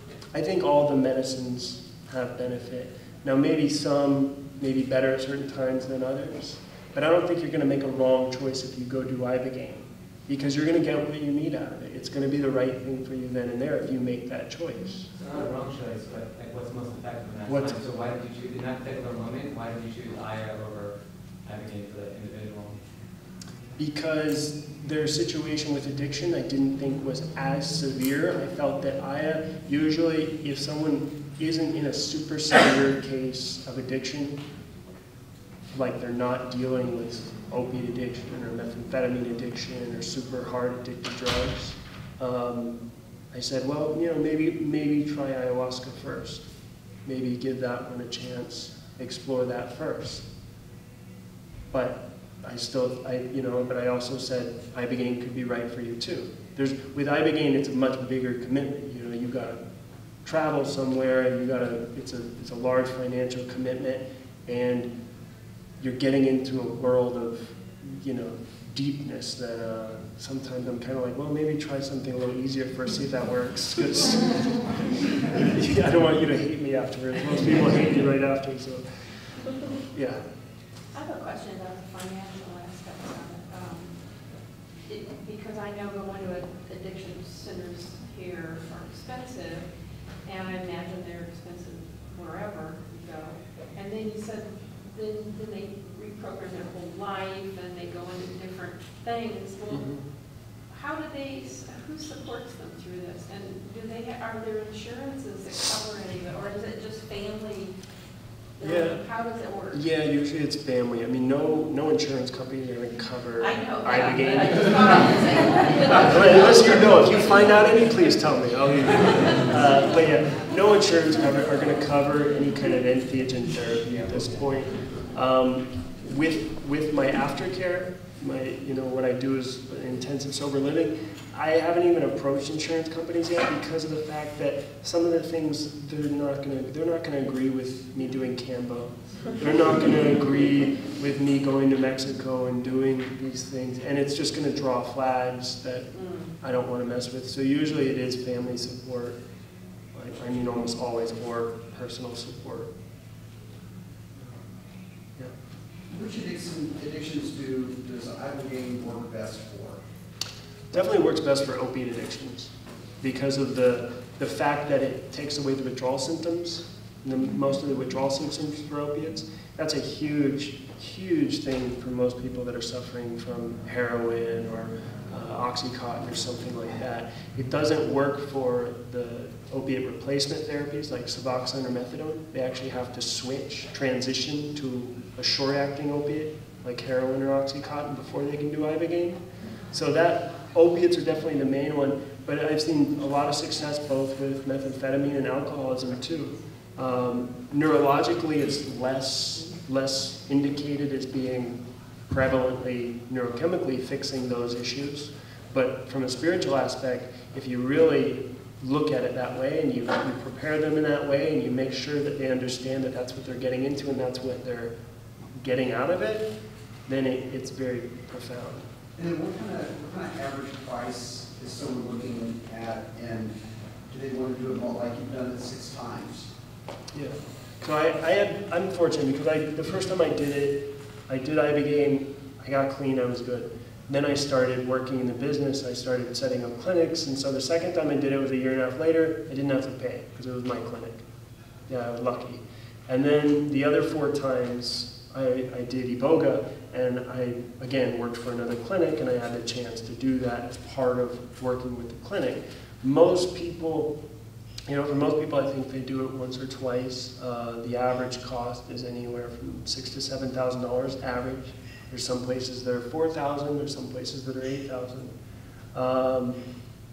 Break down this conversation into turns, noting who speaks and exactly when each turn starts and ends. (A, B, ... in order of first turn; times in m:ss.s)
0:00.3-0:15.1 A
0:15.1-0:22.8 B
0:17.5-0:17.8 A
0:23.8-0:34.4 A
0:35.7-0:42.8 A
0:43.3-0:46.4 A
0:47.0-0:50.2 A
0:51.7-0:59.6 A
1:00.2-1:04.9 A
1:05.8-1:18.8 A
1:19.9-1:20.2 A
1:20.9-1:23.9 C
1:24.9-1:29.6 C
1:30.2-1:39.8 C
1:39.7-1:40.0 A
1:40.7-1:47.7 C
1:48.6-1:49.0 A
1:48.6-1:49.8 C
1:49.7-1:54.9 A
1:53.5-1:56.8 C
1:55.8-2:25.9 A
2:03.9-2:04.3 B
2:26.4-2:29.2 A
2:29.9-2:32.7 A
2:35.9-2:39.8 D
2:40.7-2:42.5 A
2:43.0-3:09.2 A
3:09.7-3:21.6 A
3:22.1-3:34.7 A
3:35.4-3:36.3 A
3:36.9-3:38.6 A
3:39.0-3:43.4 D
3:43.9-3:46.3 D
3:46.9-4:01.0 A
4:01.7-4:13.9 A
4:14.7-4:25.1 A
4:25.7-4:26.4 A